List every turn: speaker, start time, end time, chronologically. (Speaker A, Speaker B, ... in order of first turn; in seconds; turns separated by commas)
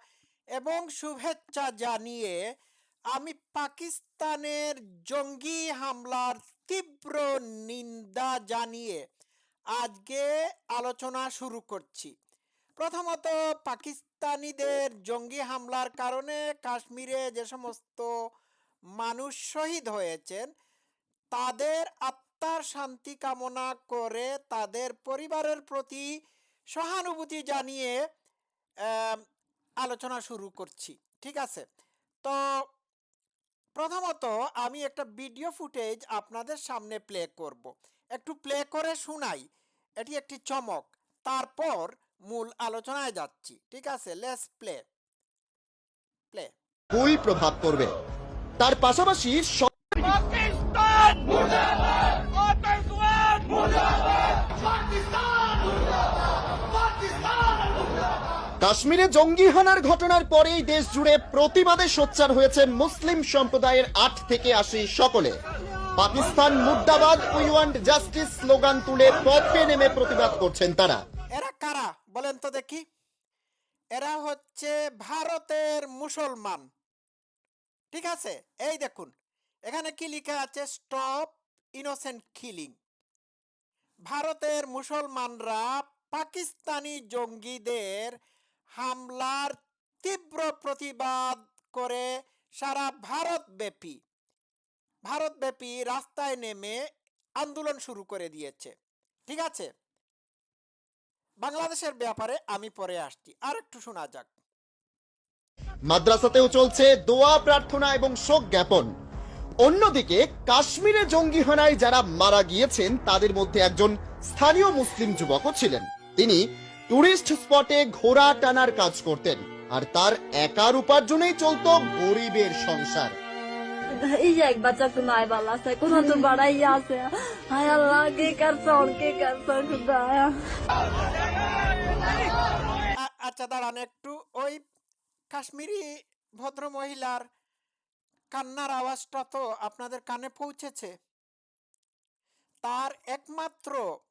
Speaker A: 0.6-2.4, Speaker A: 3.1-9.0, Speaker A: 9.7-12.1, Speaker A: 12.8-18.1, Speaker A: 19.0-20.5, Speaker A: 21.3-26.1, Speaker A: 26.8-27.9, Speaker A: 28.9-29.2, Speaker A: 29.8-31.6, Speaker A: 33.8-39.4, Speaker A: 40.0-44.8, Speaker B: 46.9-47.9, Speaker B: 48.6-49.7, Speaker B: 58.6-65.3, Speaker B: 66.0-71.0, Speaker A: 71.3-72.8, Speaker A: 73.9-76.7, Speaker A: 77.9-79.1, Speaker A: 79.7-82.8, Speaker A: 84.1-88.2, Speaker A: 88.8-92.1, Speaker A: 92.6-94.0, Speaker A: 95.0-96.8, Speaker A: 97.4-98.7, Speaker A: 99.3-99.7, Speaker A: 101.4-104.3, Speaker B: 105.9-108.9, Speaker B: 109.6-123.1, Speaker C: 124.0-130.3, Speaker A: 133.0-134.6, Speaker A: 135.3-135.9, Speaker A: 136.4-137.2, Speaker A: 138.3-140.9, Speaker A: 142.6-143.8